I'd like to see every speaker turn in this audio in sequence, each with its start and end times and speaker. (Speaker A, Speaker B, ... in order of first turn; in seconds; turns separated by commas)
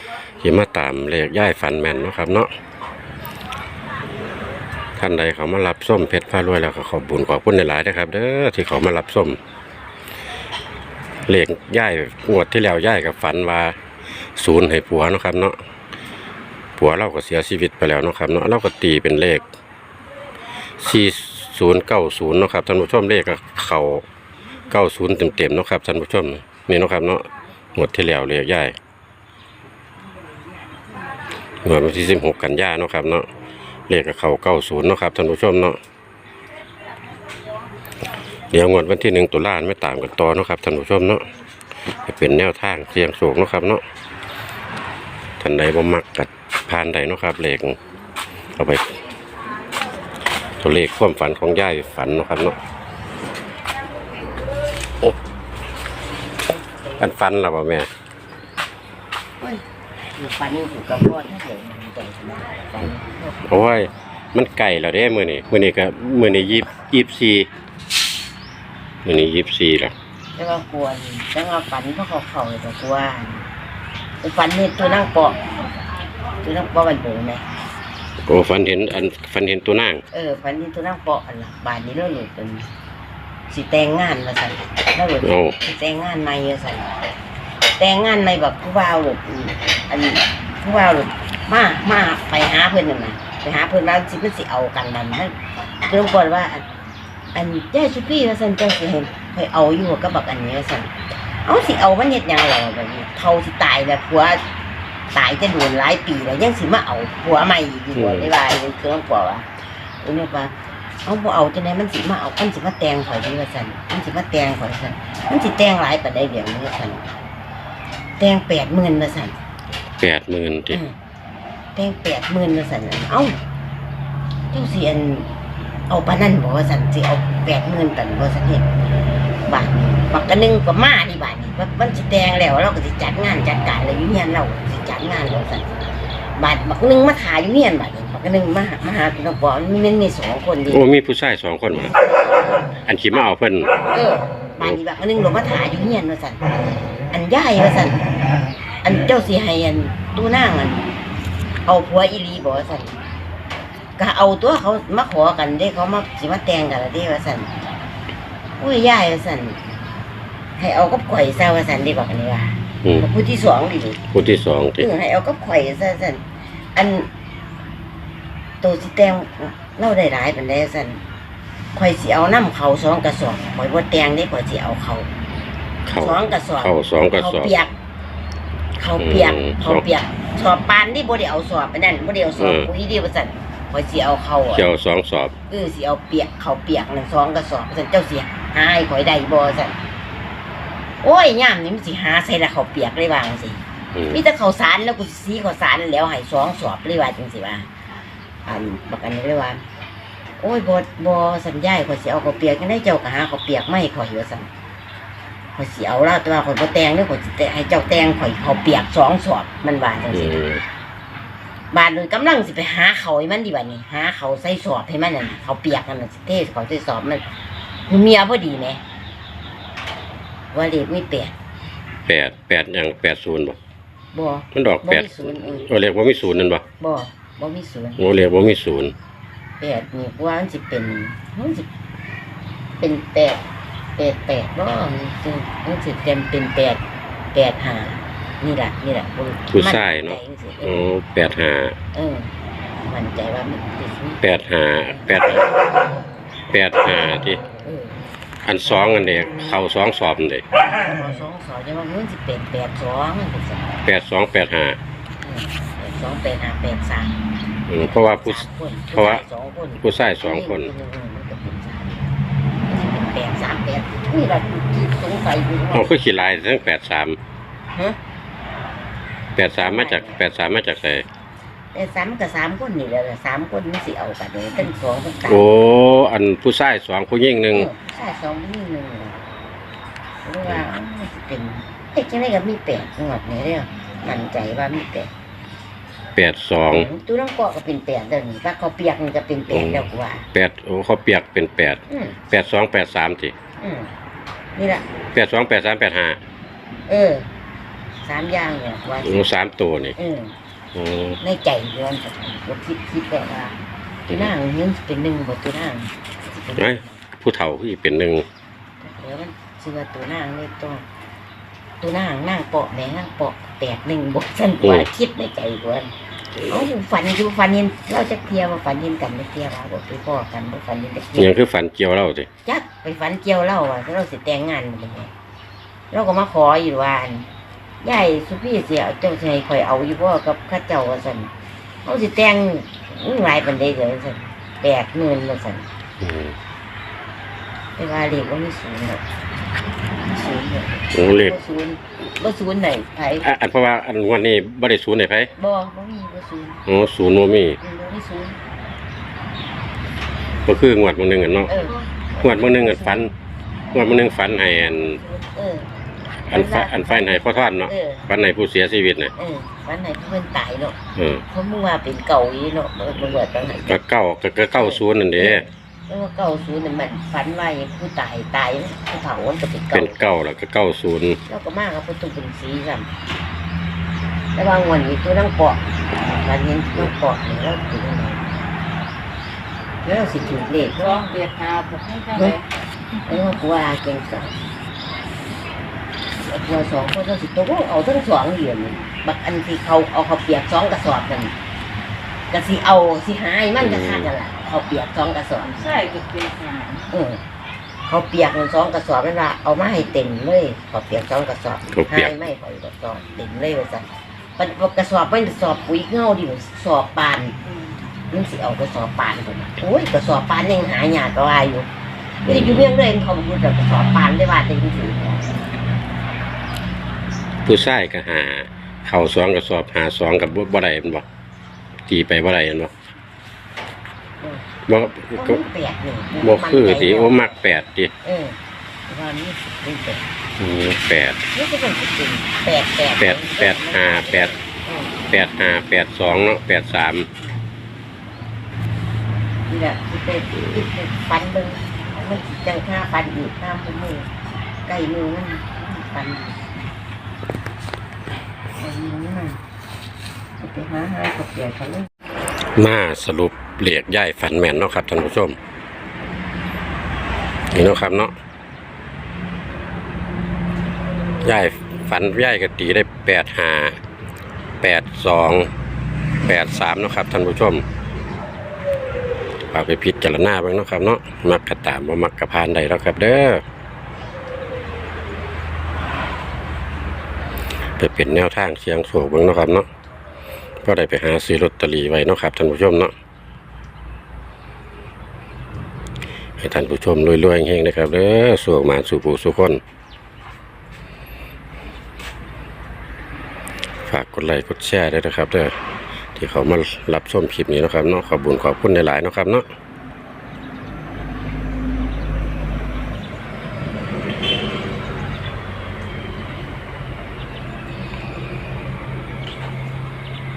Speaker A: 0.4-2.5, Speaker A: 5.0-9.4, Speaker A: 11.3-13.8, Speaker A: 14.4-15.6, Speaker A: 16.8-19.4, Speaker A: 20.8-24.0, Speaker A: 24.7-28.7, Speaker A: 31.6-33.3, Speaker A: 33.9-35.8, Speaker A: 38.5-41.2, Speaker A: 42.0-43.8, Speaker A: 45.4-47.8, Speaker A: 48.5-48.9, Speaker A: 50.6-52.6, Speaker A: 57.0-57.9, Speaker B: 60.1-63.4, Speaker A: 63.5-67.5, Speaker A: 69.0-69.9, Speaker B: 70.3-73.5, Speaker B: 74.2-75.4, Speaker B: 76.4-77.5, Speaker A: 78.2-80.0, Speaker B: 80.1-82.7, Speaker B: 83.5-87.0, Speaker A: 85.2-85.5, Speaker B: 87.8-96.6, Speaker B: 97.3-100.9, Speaker B: 101.4-104.4, Speaker B: 105.1-109.5, Speaker A: 107.9-108.3, Speaker B: 110.0-110.5, Speaker B: 111.0-117.0, Speaker B: 118.2-119.3, Speaker A: 120.0-120.8, Speaker B: 120.7-120.9, Speaker B: 121.7-123.3, Speaker B: 124.5-125.3, Speaker B: 125.9-128.7, Speaker B: 129.4-135.8, Speaker B: 136.3-140.8, Speaker A: 140.7-141.9, Speaker A: 142.9-143.7, Speaker B: 143.9-146.5, Speaker B: 147.1-148.1, Speaker B: 148.8-150.8, Speaker B: 151.7-152.9, Speaker B: 154.0-157.5, Speaker B: 158.6-159.6, Speaker B: 160.6-164.0, Speaker A: 164.1-164.9, Speaker B: 164.8-166.2, Speaker B: 166.7-167.1, Speaker B: 168.6-171.0, Speaker B: 171.7-175.1, Speaker A: 175.8-177.5, Speaker B: 176.0-177.7, Speaker B: 178.8-184.7, Speaker A: 179.0-179.8, Speaker A: 182.4-182.7, Speaker A: 184.5-185.3, Speaker B: 185.5-189.8, Speaker B: 191.0-197.7, Speaker A: 193.9-194.2, Speaker B: 198.4-199.6, Speaker B: 200.4-204.5, Speaker B: 205.5-210.4, Speaker A: 210.1-210.6, Speaker B: 211.7-217.2, Speaker B: 217.9-218.8, Speaker B: 220.5-221.3, Speaker A: 222.1-223.6, Speaker B: 224.1-225.7, Speaker A: 224.5-226.6, Speaker B: 226.8-228.0, Speaker A: 228.0-228.9, Speaker B: 229.6-231.7, Speaker B: 232.8-233.4, Speaker B: 234.0-236.8, Speaker B: 237.3-240.8, Speaker A: 239.5-241.8, Speaker B: 241.9-242.3, Speaker B: 242.8-244.2, Speaker A: 244.2-245.4, Speaker A: 246.5-247.4, Speaker B: 247.6-248.0, Speaker A: 248.4-250.4, Speaker B: 250.6-253.7, Speaker A: 253.8-254.8, Speaker B: 255.2-257.1, Speaker A: 257.7-259.2, Speaker B: 257.8-262.1, Speaker A: 259.8-260.7, Speaker B: 262.7-265.9, Speaker A: 265.7-267.2, Speaker A: 269.3-271.0, Speaker B: 269.6-270.2, Speaker B: 271.7-275.4, Speaker A: 275.3-277.7, Speaker B: 277.5-279.2, Speaker B: 280.2-285.1, Speaker A: 286.1-286.9, Speaker B: 286.7-290.3, Speaker A: 289.5-293.3, Speaker B: 291.9-292.2, Speaker B: 293.6-293.9, Speaker B: 294.6-294.8, Speaker A: 295.1-296.2, Speaker B: 296.9-297.3, Speaker B: 298.0-299.2, Speaker A: 299.0-299.9, Speaker B: 299.9-300.3, Speaker A: 300.7-301.2, Speaker B: 301.2-307.0, Speaker A: 306.6-308.2, Speaker B: 308.8-310.8, Speaker B: 311.8-315.9, Speaker A: 314.6-314.9, Speaker B: 316.5-321.4, Speaker A: 321.1-322.3, Speaker B: 322.4-325.1, Speaker B: 325.9-327.2, Speaker B: 327.8-331.3, Speaker B: 331.8-335.7, Speaker A: 336.0-336.3, Speaker B: 337.8-339.0, Speaker B: 340.0-343.3, Speaker A: 340.9-341.4, Speaker A: 343.2-345.3, Speaker B: 345.3-346.6, Speaker A: 346.7-347.6, Speaker B: 347.6-348.4, Speaker A: 350.4-351.5, Speaker B: 351.5-353.1, Speaker A: 352.2-353.1, Speaker A: 353.7-355.0, Speaker B: 355.0-355.7, Speaker A: 356.3-359.1, Speaker B: 356.3-356.9, Speaker B: 357.7-358.1, Speaker B: 359.1-360.8, Speaker A: 360.9-361.2, Speaker B: 361.3-363.8, Speaker A: 363.7-365.5, Speaker B: 364.5-370.0, Speaker A: 369.7-371.2, Speaker B: 371.2-372.9, Speaker B: 374.3-378.3, Speaker B: 379.8-381.1, Speaker C: 380.5-382.4, Speaker B: 382.1-382.4, Speaker B: 383.1-384.4, Speaker B: 386.2-391.3, Speaker B: 392.3-395.8, Speaker A: 393.6-394.1, Speaker C: 395.5-396.9, Speaker B: 396.9-397.2, Speaker B: 397.9-407.4, Speaker A: 401.7-402.1, Speaker B: 408.1-411.7, Speaker B: 412.2-415.4, Speaker A: 412.3-412.7, Speaker A: 417.4-421.0, Speaker A: 421.9-422.7, Speaker B: 424.2-424.4, Speaker A: 424.7-425.4, Speaker B: 425.1-427.3, Speaker A: 426.2-427.9, Speaker B: 428.0-430.1, Speaker A: 430.4-431.2, Speaker B: 431.3-434.9, Speaker A: 433.0-434.3, Speaker A: 435.1-437.1, Speaker B: 439.5-444.1, Speaker B: 444.6-446.4, Speaker B: 448.6-449.4, Speaker B: 450.4-451.9, Speaker A: 452.6-455.4, Speaker A: 457.5-458.1, Speaker A: 461.2-463.8, Speaker A: 464.6-465.5, Speaker A: 466.2-467.6, Speaker A: 469.5-473.4, Speaker A: 477.8-479.7, Speaker A: 480.6-482.9, Speaker A: 486.4-489.6, Speaker A: 493.9-495.5, Speaker A: 496.1-499.4